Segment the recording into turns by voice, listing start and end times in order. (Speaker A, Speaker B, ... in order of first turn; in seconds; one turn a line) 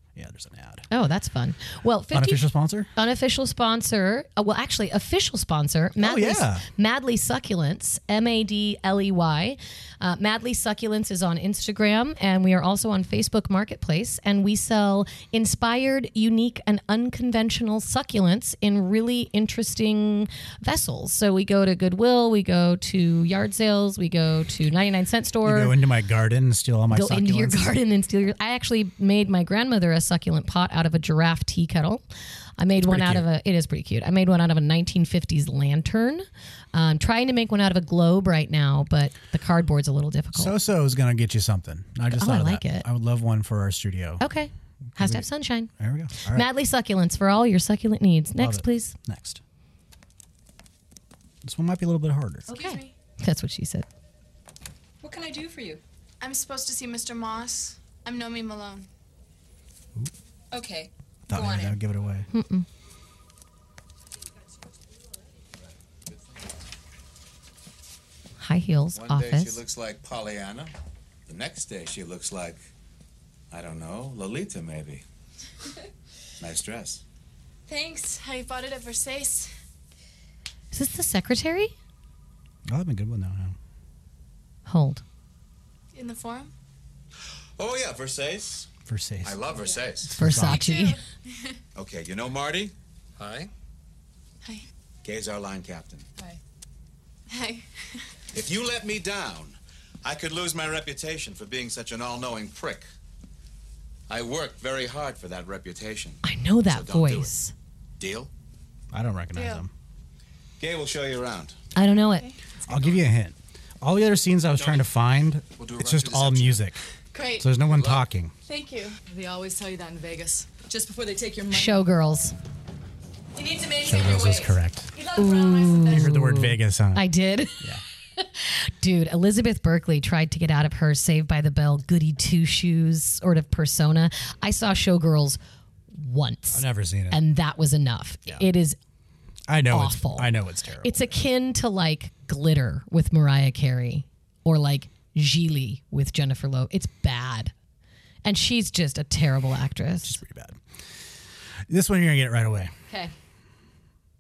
Speaker A: 0.1-0.9
Speaker B: 0.9-25.8
Speaker A: 2.1-2.9
Speaker A: 6.0-6.7
Speaker A: 25.4-27.8
Speaker B: 26.9-32.0
Speaker B: 32.6-40.5
Speaker A: 32.8-33.3
Speaker A: 40.3-44.2
Speaker B: 42.1-42.9
Speaker B: 44.2-45.7
Speaker A: 44.9-46.5
Speaker B: 46.2-48.9
Speaker A: 48.4-49.4
Speaker A: 51.4-52.5
Speaker C: 52.5-52.9
Speaker B: 52.5-53.9
Speaker C: 55.0-55.8
Speaker D: 56.2-57.8
Speaker C: 60.5-61.8
Speaker A: 61.3-62.3
Speaker B: 62.3-62.7
Speaker B: 68.4-69.6
Speaker E: 68.9-70.7
Speaker E: 71.3-72.6
Speaker E: 73.5-75.0
Speaker E: 76.4-77.0
Speaker B: 80.7-81.8
Speaker A: 82.7-83.6
Speaker B: 84.7-85.0
Speaker D: 86.0-86.5
Speaker E: 87.6-88.7
Speaker A: 88.9-89.5
Speaker E: 89.2-90.2
Speaker A: 90.0-90.7
Speaker B: 90.1-91.0
Speaker E: 91.8-92.7
Speaker E: 95.0-96.1
Speaker E: 98.3-102.9
Speaker E: 104.1-107.3
Speaker B: 106.2-107.5
Speaker E: 108.0-108.3
Speaker A: 108.9-109.7
Speaker C: 109.3-109.6
Speaker E: 110.6-111.6
Speaker B: 111.8-112.3
Speaker A: 112.7-116.8
Speaker E: 114.5-114.8
Speaker E: 115.6-116.6
Speaker C: 117.1-117.5
Speaker A: 117.4-118.3
Speaker E: 117.7-118.0
Speaker C: 118.5-121.8
Speaker B: 121.5-122.3
Speaker C: 123.4-126.1
Speaker A: 123.8-124.9
Speaker B: 125.2-135.4
Speaker A: 125.9-127.1
Speaker B: 135.9-138.8
Speaker A: 136.5-137.2
Speaker A: 139.5-141.1
Speaker B: 139.7-140.3
Speaker B: 140.8-147.5
Speaker B: 148.2-150.2
Speaker A: 150.0-150.6
Speaker A: 151.7-152.7